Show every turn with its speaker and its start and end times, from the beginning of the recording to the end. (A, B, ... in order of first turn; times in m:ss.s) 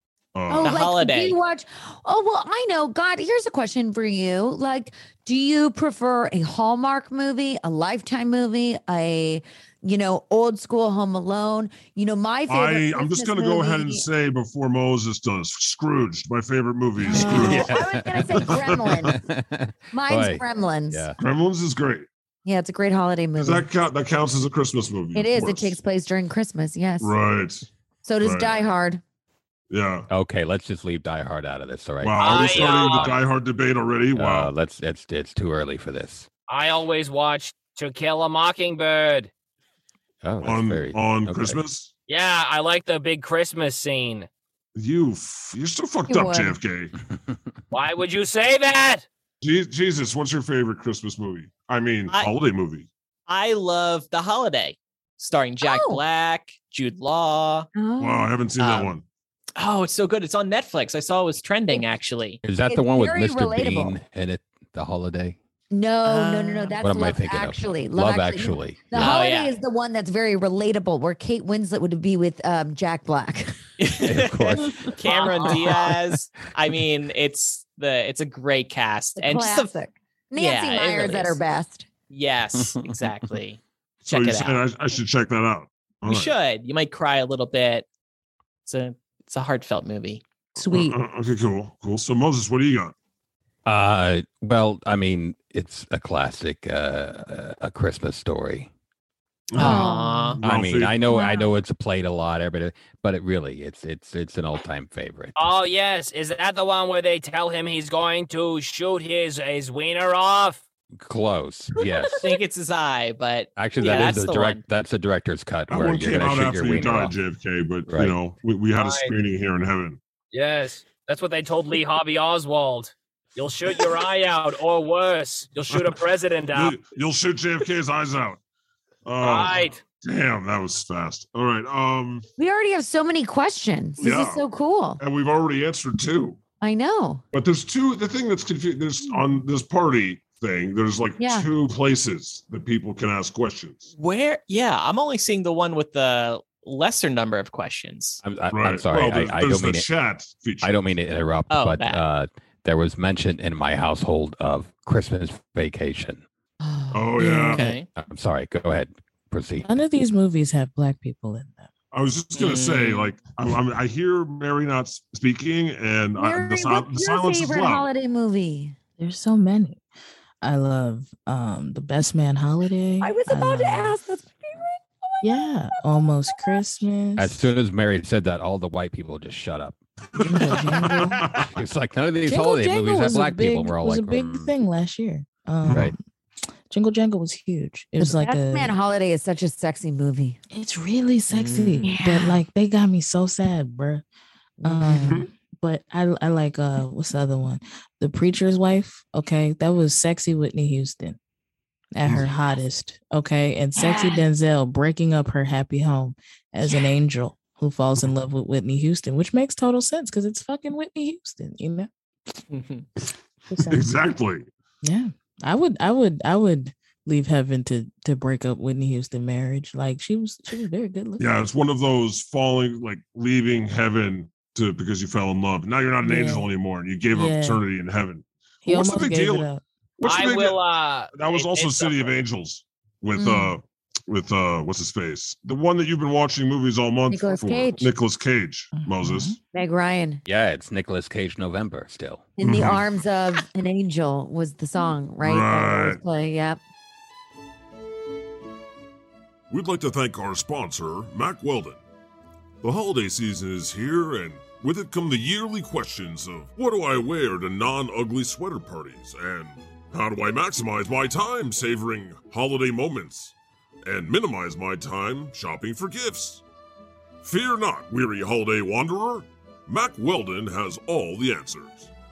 0:00.3-0:00.8 A
0:00.5-0:14.1 B
0:00.6-0:01.4 C
0:12.5-0:17.8 A
0:17.0-0:19.1 B
0:17.2-0:21.1 D
0:18.4-0:19.1 A
0:19.9-0:21.1 B
0:21.2-0:22.1 A
0:22.4-0:23.7 B
0:23.4-0:25.8 A
0:25.1-0:27.2 B
0:27.0-0:27.7 A
0:28.0-0:29.0 B
0:28.2-0:28.6 A
0:29.7-0:30.1 A
0:30.1-0:32.7 D
0:32.0-0:34.5 A
0:32.2-0:33.2 E
0:34.1-0:36.3 D
0:36.5-0:39.3 E
0:40.2-0:41.6 D
0:40.4-0:41.9 A
0:42.1-0:44.3 E
0:44.8-0:46.9 A
0:46.1-0:46.6 B
0:47.7-0:49.0 E
0:49.4-0:52.9 A
0:52.1-0:52.3 C
0:53.3-0:57.7 C
0:55.6-0:56.0 B
0:57.7-0:58.3 B
0:58.0-0:59.0 A
0:58.6-0:58.9 C
0:59.6-1:02.4 C
1:02.4-1:05.4 D
1:02.7-1:04.0 B
1:05.7-1:13.6 B
1:06.0-1:06.7 C
1:06.8-1:09.1 D
1:08.9-1:09.5 C
1:13.8-1:19.7 C
1:14.0-1:16.1 D
1:15.1-1:15.5 E
1:19.2-1:21.9 B
1:20.4-1:21.4 C
1:22.1-1:24.6 C
1:22.6-1:23.1 D
1:24.0-1:26.3 A
1:26.0-1:27.8 C
1:28.6-1:30.2 C
1:30.6-1:30.9 F
1:30.6-1:32.9 A
1:33.6-1:38.7 D
1:39.5-1:41.0 A
1:39.5-1:40.4 C
1:39.6-1:40.4 B
1:40.4-1:45.4 D
1:41.0-1:41.5 B
1:45.4-1:50.6 E
1:51.0-1:52.3 D
1:52.2-1:54.6 C
1:53.6-1:57.1 D
1:55.7-2:00.0 A
1:57.8-1:58.2 D
1:58.8-1:59.1 E
2:00.3-2:06.8 E
2:06.5-2:08.4 A
2:09.0-2:12.2 A
2:09.2-2:09.8 E
2:12.4-2:15.0 B
2:14.0-2:14.4 A
2:15.0-2:16.4 A
2:16.6-2:17.2 B
2:17.3-2:23.9 A
2:21.2-2:21.5 B
2:23.9-2:28.2 C
2:28.2-2:29.9 D
2:28.5-2:30.7 A
2:30.6-2:36.2 D
2:31.5-2:32.0 C
2:36.6-2:37.1 B
2:36.9-2:37.7 A
2:37.2-2:37.6 F
2:37.5-2:37.9 C
2:37.9-2:39.7 D
2:39.6-2:41.7 F
2:41.9-2:47.9 A
2:42.3-2:43.1 C
2:46.2-2:48.8 B
2:49.0-2:49.8 F
2:50.4-2:54.0 F
2:53.0-2:55.6 B
2:55.2-2:57.4 F
2:56.3-2:56.6 B
2:57.2-2:59.8 D
3:00.1-3:01.5 A
3:00.2-3:01.2 F
3:01.4-3:04.5 D
3:02.2-3:06.0 F
3:05.6-3:05.9 A
3:06.7-3:08.7 F
3:08.0-3:10.4 B
3:10.5-3:14.0 F
3:11.3-3:11.9 C
3:11.8-3:12.4 B
3:14.6-3:21.2 F
3:15.0-3:15.3 A
3:21.9-3:31.9 F
3:22.0-3:22.3 A
3:23.8-3:24.2 B
3:32.5-3:32.8 C
3:33.5-3:34.0 F
3:33.6-3:34.5 A
3:34.8-3:41.2 F
3:41.2-3:49.5 A
3:46.0-3:46.5 F
3:47.1-3:47.6 F
3:48.6-3:49.6 F
3:50.0-3:50.6 A
3:50.0-3:52.2 E
3:51.1-3:59.4 A
3:53.2-3:53.6 B
3:57.1-3:57.9 B
3:58.7-3:59.4 F
3:59.5-4:00.2 B
4:00.2-4:02.3 D
4:02.4-4:06.6 B
4:02.4-4:02.8 A
4:05.2-4:06.0 A
4:09.5-4:11.8 A
4:12.6-4:26.4 A
4:27.2-4:31.9 A